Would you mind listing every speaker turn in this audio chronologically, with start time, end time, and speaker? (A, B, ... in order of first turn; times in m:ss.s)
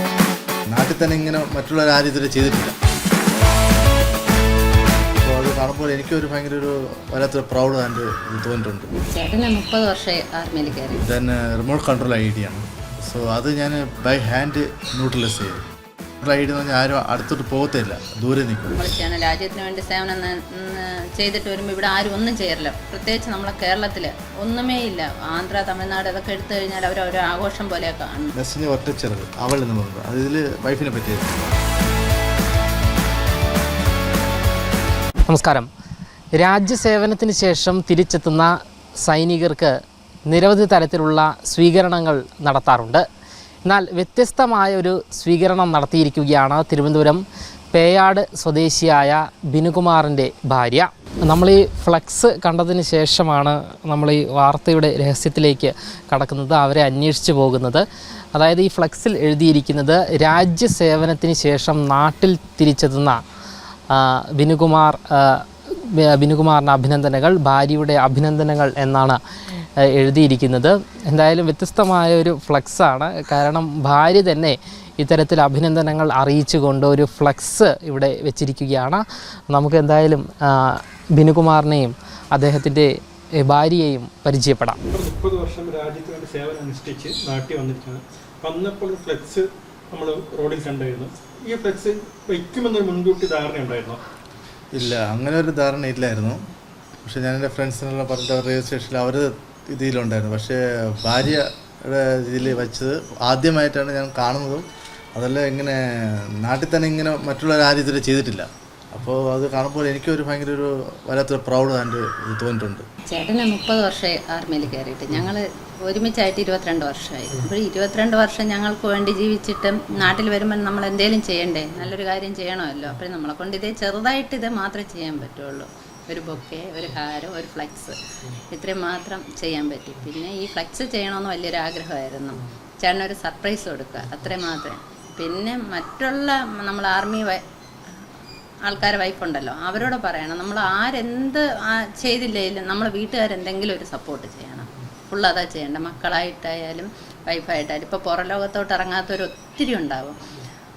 0:00.7-0:02.8 A
0:05.2-0:08.9 A
0:09.1-0:11.0 B
0:11.0-0:15.6 A
0:16.2-0:18.8 A
0:18.7-0:28.4 B
0:28.4-0:31.5 A
0:35.3-0:35.7 C
0:36.4-0:39.7 C
0:40.3-0:43.0 C
0:43.7-0:47.2 C
0:47.7-1:03.2 C
1:03.9-1:09.2 C
1:09.9-1:24.8 C
1:24.9-1:34.0 D
1:34.8-1:36.4 A
1:37.0-1:52.9 A
1:53.1-2:08.0 B
2:08.5-2:17.4 B
2:18.7-2:30.2 B